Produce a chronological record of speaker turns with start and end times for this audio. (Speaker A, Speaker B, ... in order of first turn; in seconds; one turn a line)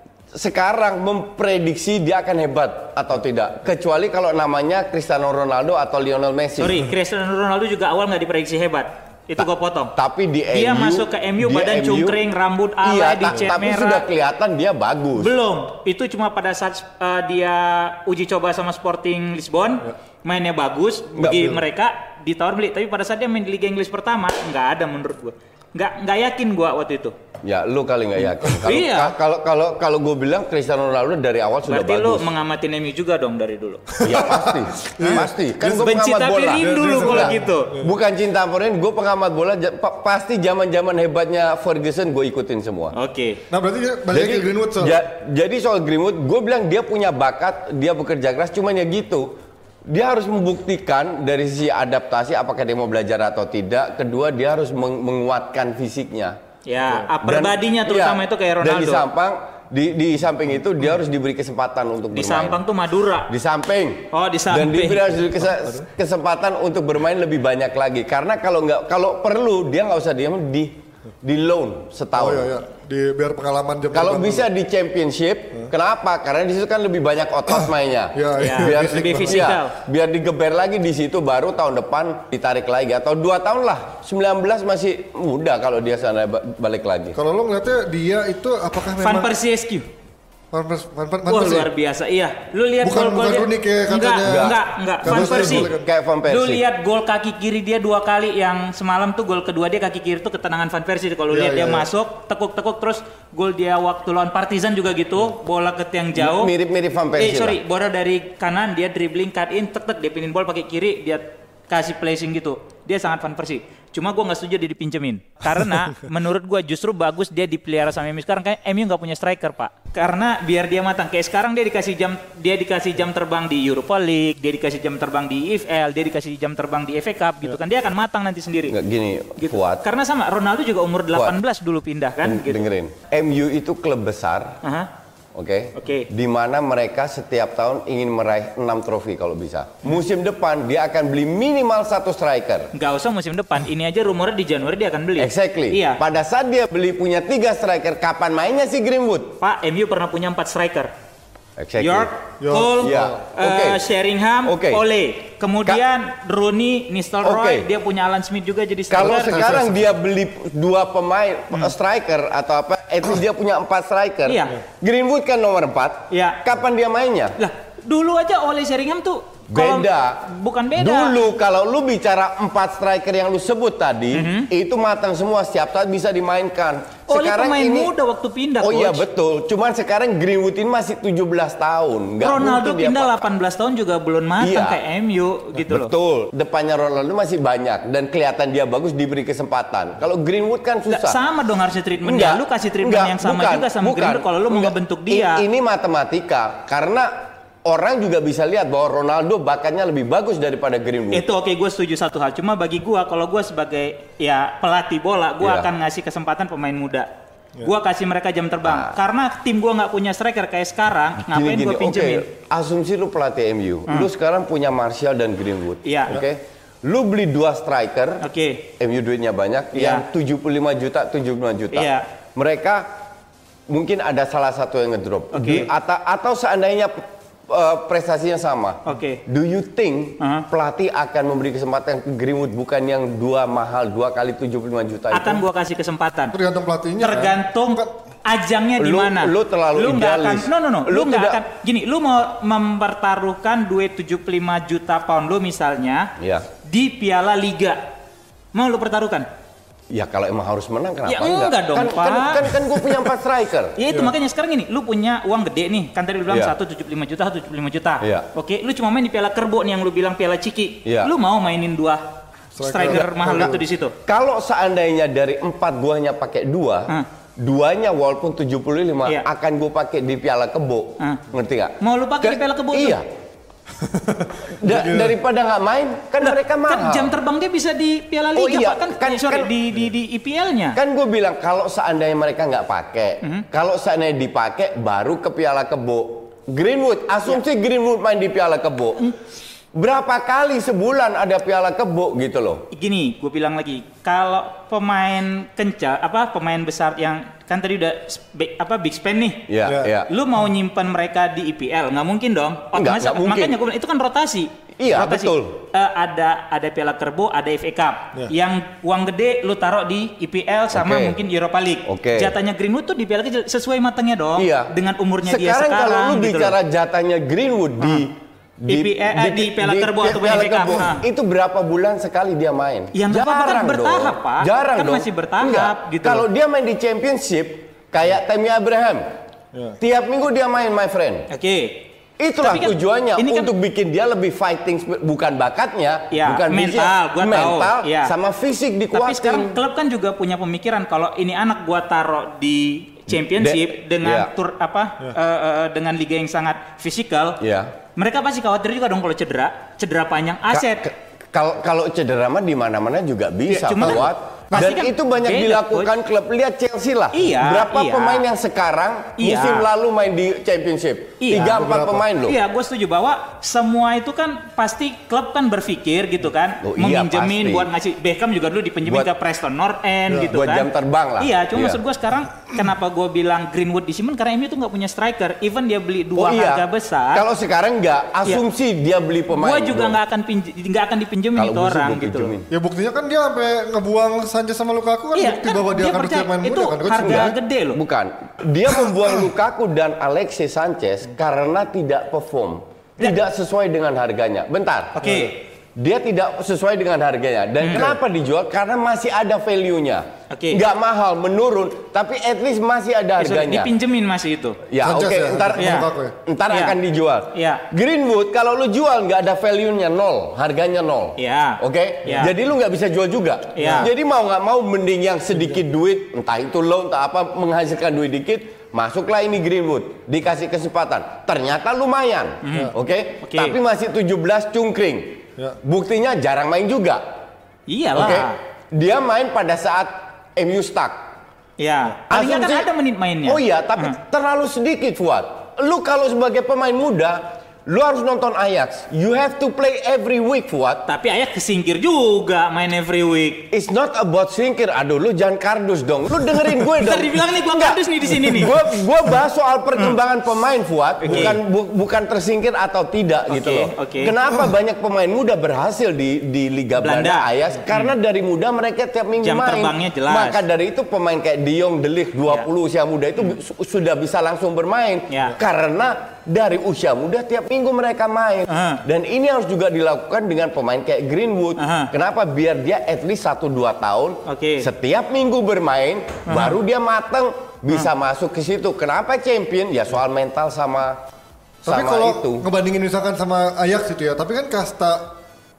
Speaker A: 0.3-6.9
Speaker B: 6.6-9.9
Speaker A: 9.4-12.2
Speaker B: 10.5-14.0
Speaker A: 12.8-15.3
Speaker B: 15.2-27.1
Speaker A: 21.2-21.6
Speaker A: 27.4-32.3
Speaker B: 28.5-29.1
Speaker B: 31.6-34.0
Speaker C: 34.0-37.9
Speaker A: 34.0-42.9
Speaker B: 35.8-37.7
Speaker B: 42.9-43.4
Speaker C: 43.5-45.0
Speaker A: 44.1-56.4
Speaker B: 56.6-59.0
Speaker A: 56.9-62.6
Speaker B: 62.1-63.3
Speaker A: 63.3-72.5
Speaker B: 64.1-65.1
Speaker C: 72.2-74.5
Speaker A: 73.9-87.2
Speaker C: 77.5-79.4
Speaker B: 78.4-79.8
Speaker C: 87.1-89.3
Speaker B: 89.0-89.9
Speaker C: 90.5-91.7
Speaker B: 91.3-95.7
Speaker C: 92.8-95.9
Speaker A: 94.2-96.6
Speaker B: 96.3-106.5
Speaker C: 101.3-101.9
Speaker A: 106.2-107.6
Speaker B: 107.2-128.7
Speaker A: 128.7-129.8
Speaker B: 129.4-132.6
Speaker A: 132.2-134.6
Speaker B: 134.6-134.9
Speaker A: 135.3-142.7
Speaker B: 135.8-136.1
Speaker B: 142.7-146.0
Speaker A: 145.2-149.4
Speaker B: 149.4-150.9
Speaker A: 151.6-152.2
Speaker B: 151.8-159.5
Speaker C: 152.4-153.2
Speaker A: 152.8-153.8
Speaker A: 154.4-154.8
Speaker A: 157.2-157.7
Speaker A: 158.9-167.4
Speaker C: 159.0-159.9
Speaker B: 164.3-164.6
Speaker B: 166.1-166.4
Speaker B: 167.4-171.1
Speaker A: 169.5-170.2
Speaker A: 170.8-177.9
Speaker B: 174.1-174.5
Speaker B: 177.1-179.0
Speaker A: 178.6-183.3
Speaker B: 182.2-185.9
Speaker A: 184.4-184.8
Speaker A: 185.6-191.2
Speaker B: 190.9-195.4
Speaker A: 192.0-201.2
Speaker B: 201.1-207.1
Speaker A: 205.4-205.7
Speaker B: 207.6-212.2
Speaker A: 208.6-208.9
Speaker A: 211.2-218.2
Speaker B: 215.8-216.2
Speaker B: 218.2-218.7
Speaker A: 218.8-222.9
Speaker B: 219.7-220.1
Speaker B: 221.7-222.1
Speaker A: 223.7-235.4
Speaker B: 225.3-225.7
Speaker B: 228.8-229.2
Speaker B: 230.2-230.4
Speaker B: 235.1-236.3
Speaker C: 236.3-238.0
Speaker B: 237.0-246.1
Speaker A: 238.8-241.4
Speaker A: 246.2-246.5
Speaker B: 246.6-247.9
Speaker B: 248.5-249.3
Speaker A: 249.9-253.8
Speaker B: 251.1-252.9
Speaker B: 253.8-262.0
Speaker A: 258.0-258.3
Speaker A: 260.8-261.1
Speaker C: 262.5-263.6
Speaker B: 262.6-263.9
Speaker A: 262.9-263.5
Speaker A: 264.1-273.1
Speaker B: 271.8-273.0
Speaker C: 273.8-275.2
Speaker A: 274.6-277.1
Speaker B: 276.2-280.8
Speaker A: 278.3-279.5
Speaker A: 280.7-289.1
Speaker A: 289.7-292.6
Speaker B: 292.7-299.5
Speaker A: 299.5-300.1
Speaker C: 299.6-299.9
Speaker B: 300.1-316.5
Speaker A: 302.7-303.6
Speaker A: 304.8-305.6
Speaker A: 310.7-311.2
Speaker A: 311.8-312.3
Speaker A: 314.4-314.7
Speaker A: 315.2-329.1
Speaker B: 318.7-321.0
Speaker B: 322.9-326.2
Speaker A: 329.8-331.3
Speaker B: 331.3-331.9
Speaker A: 332.2-339.6
Speaker B: 332.4-333.5
Speaker B: 336.1-338.1
Speaker B: 338.9-347.4
Speaker A: 343.1-344.3
Speaker A: 347.4-347.7
Speaker B: 347.9-350.9
Speaker A: 350.5-362.4
Speaker C: 353.5-354.7
Speaker B: 353.6-355.9
Speaker B: 357.1-358.2
Speaker B: 359.2-359.7
Speaker B: 361.2-361.6
Speaker C: 361.5-362.1
Speaker B: 362.2-370.7
Speaker A: 366.6-367.7
Speaker A: 370.2-371.8
Speaker B: 371.2-377.2
Speaker A: 376.1-380.0
Speaker B: 379.3-382.3
Speaker A: 381.4-382.5
Speaker C: 382.5-387.4
Speaker B: 385.1-387.8
Speaker A: 387.0-395.0
Speaker B: 395.0-395.3
Speaker C: 395.0-395.3
Speaker A: 395.8-403.7
Speaker B: 397.6-397.9
Speaker B: 400.3-400.6
Speaker B: 403.2-404.6
Speaker A: 404.7-427.0
Speaker C: 404.8-406.1
Speaker B: 405.6-405.9
Speaker B: 406.5-406.8
Speaker B: 407.3-407.6
Speaker B: 411.2-412.3
Speaker B: 413.5-413.9
Speaker C: 413.6-413.9
Speaker B: 422.4-423.6
Speaker B: 427.7-428.4
Speaker A: 427.9-431.0
Speaker B: 431.6-434.0
Speaker A: 432.1-432.7
Speaker A: 433.2-440.8
Speaker B: 440.9-443.5
Speaker A: 443.5-481.0
Speaker B: 446.5-448.5
Speaker C: 451.1-451.3
Speaker B: 451.1-451.4
Speaker B: 453.3-454.1
Speaker B: 456.8-457.9
Speaker B: 459.2-460.4
Speaker B: 465.1-465.4
Speaker B: 468.5-468.8
Speaker B: 471.6-471.9
Speaker B: 474.2-474.6
Speaker B: 476.2-476.6
Speaker A: 481.6-482.4
Speaker C: 481.6-485.1